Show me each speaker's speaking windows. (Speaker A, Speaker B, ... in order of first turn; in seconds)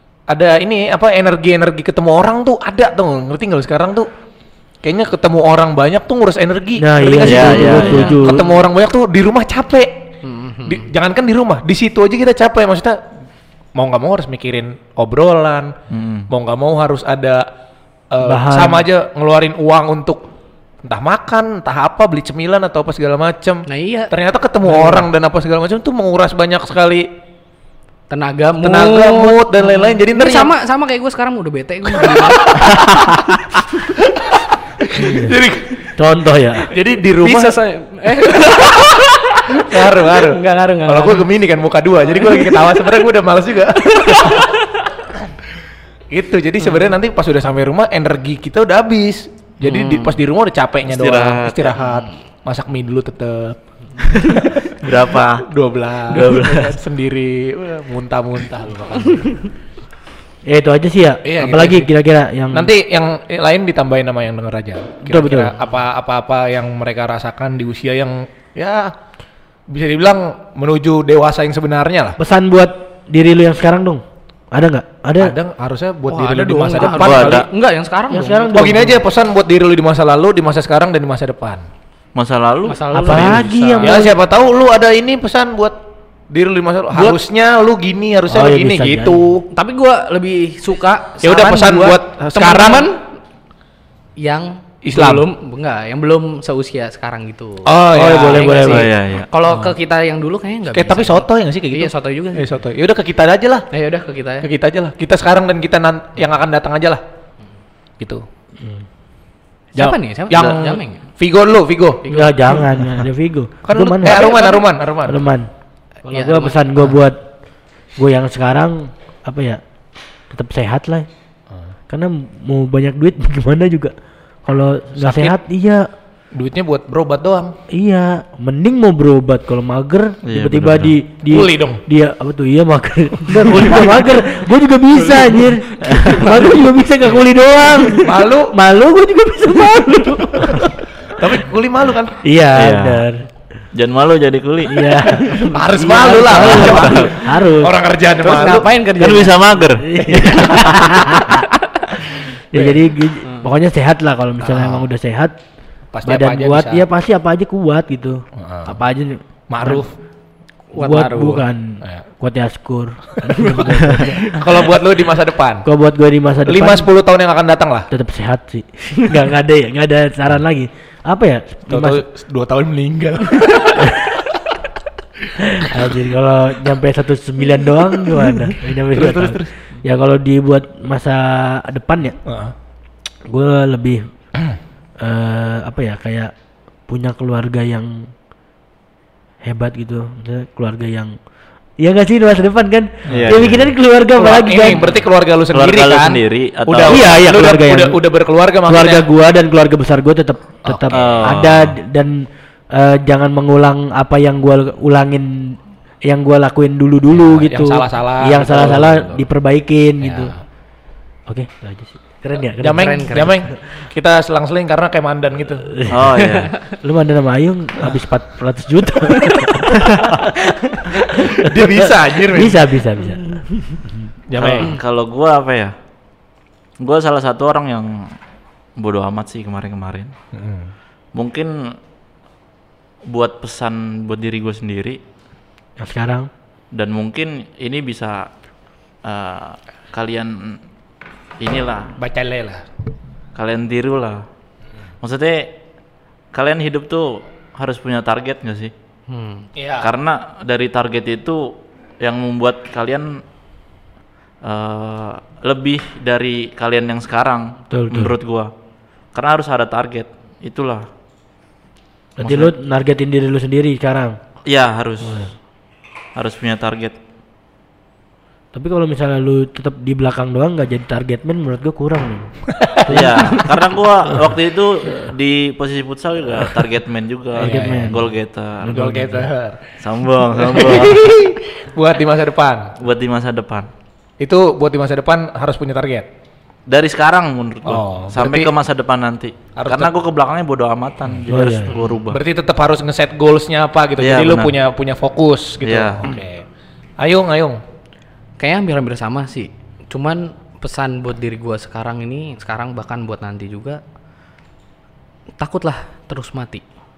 Speaker A: 0.3-4.1, 4.8-10.1, 10.6-13.0, 13.8-15.8, 16.3-17.5, 18.1-20.3, 20.8-27.1, 28.6-30.5, 32.0-32.9, 34.0-34.3, 34.8-35.9, 36.6-37.6, 38.3-38.9, 39.5-44.5, 46.1-54.7, 55.4-59.5, 61.2-61.9, 62.5-68.9, 69.7-72.2, 75.2-77.5, 78.5-81.7, 83.8-85.8, 86.3-89.5, 91.2-92.9, 94.8-95.3, 97.7-98.8, 99.5-99.7, 100.7-103.7, 104.4-107.0, 109.8-112.1, 113.7-115.2, 125.0-125.4, 126.3-127.5, 131.3-131.8, 138.0-138.5, 141.1-142.2, 145.3-148.7, 150.1-150.6, 152.5-152.8, 154.4-154.8, 155.9-156.9, 158.4-158.8, 159.5-159.9, 164.2-165.7, 166.5-167.9, 171.7-174.2, 178.9-179.5, 182.2-182.5, 193.1-193.3, 194.2-199.1, 200.7-201.2, 207.2-209.2, 212.6-215.7, 221.1-222.6, 224.3-224.8, 230.3-230.7, 242.0-242.7, 249.6-249.9, 272.5-272.9, 277.4-278.0, 278.7-279.6, 280.4-282.8, 284.2-286.1, 287.7-288.5, 289.6-289.9, 292.1-296.4, 297.0-297.6
Speaker B: 6.8-8.5, 18.2-18.9, 35.0-35.4, 36.0-36.7, 60.5-62.7, 65.0-65.6, 72.2-75.3, 78.1-79.0, 82.9-84.2, 88.3-89.2, 97.9-98.9, 108.6-108.8, 112.1-115.5, 116.1-117.2, 118.0-119.6, 120.3-121.1, 121.9-123.9, 124.5-125.9, 127.7-140.8, 142.2-143.2, 144.7-147.7, 149.8-151.5, 152.5-155.3, 156.1-159.8, 160.8-164.6, 165.7-166.9, 167.9-172.0, 173.8-174.1, 175.4-182.2, 183.3-184.1, 185.0-186.3, 186.9-188.1, 189.4-191.2, 191.8-194.9, 196.9-198.0, 198.7-210.3, 211.3-213.5, 215.7-216.3, 216.8-224.1, 235.8-236.3, 257.7-258.2, 262.2-264.2, 265.0-265.3, 268.6-273.5, 277.4-278.1, 278.6-279.2, 291.3-291.8
Speaker C: 7.2-8.4, 15.9-16.3, 50.9-51.8, 54.3-55.5, 56.1-56.8, 76.8-77.5, 82.2-83.5, 98.6-99.3, 130.3-131.0, 142.6-143.1, 143.7-145.2, 146.5-147.1, 149.0-150.9, 193.1-193.7, 195.5-197.3, 200.9-201.8, 215.9-216.5, 219.8-220.2, 224.4-225.8, 226.8-228.2, 228.8-230.1, 231.2-231.8, 233.1-235.0, 236.7-238.3, 239.0-240.6, 241.4-241.9, 243.3-244.2, 245.0-245.6, 246.3-248.7, 249.8-253.2, 254.4-258.5, 259.1-260.9, 262.2-262.5, 264.4-265.3, 266.1-267.0, 272.9-279.3, 279.8-281.1, 282.8-283.7, 286.7-292.2, 294.0-294.6, 295.6-296.1
Speaker D: 10.2-10.9, 23.7-24.1, 24.6-25.1, 28.1-32.8, 37.1-41.3, 42.1-42.9, 43.9-44.6, 46.6-46.9, 49.6-50.2, 56.1-56.7, 76.1-78.5, 82.7-84.1, 86.9-87.2, 89.5-93.0, 94.2-102.5, 103.7-104.5, 109.8-111.0, 112.0-112.7, 116.1-117.0, 135.1-136.6, 139.7-140.3, 146.5-146.9, 148.2-149.7, 160.7-161.5, 163.4-163.9, 210.0-210.3, 212.7-213.4, 216.2-216.6, 219.2-219.4, 249.1-249.5, 298.4-303.8, 305.4-306.6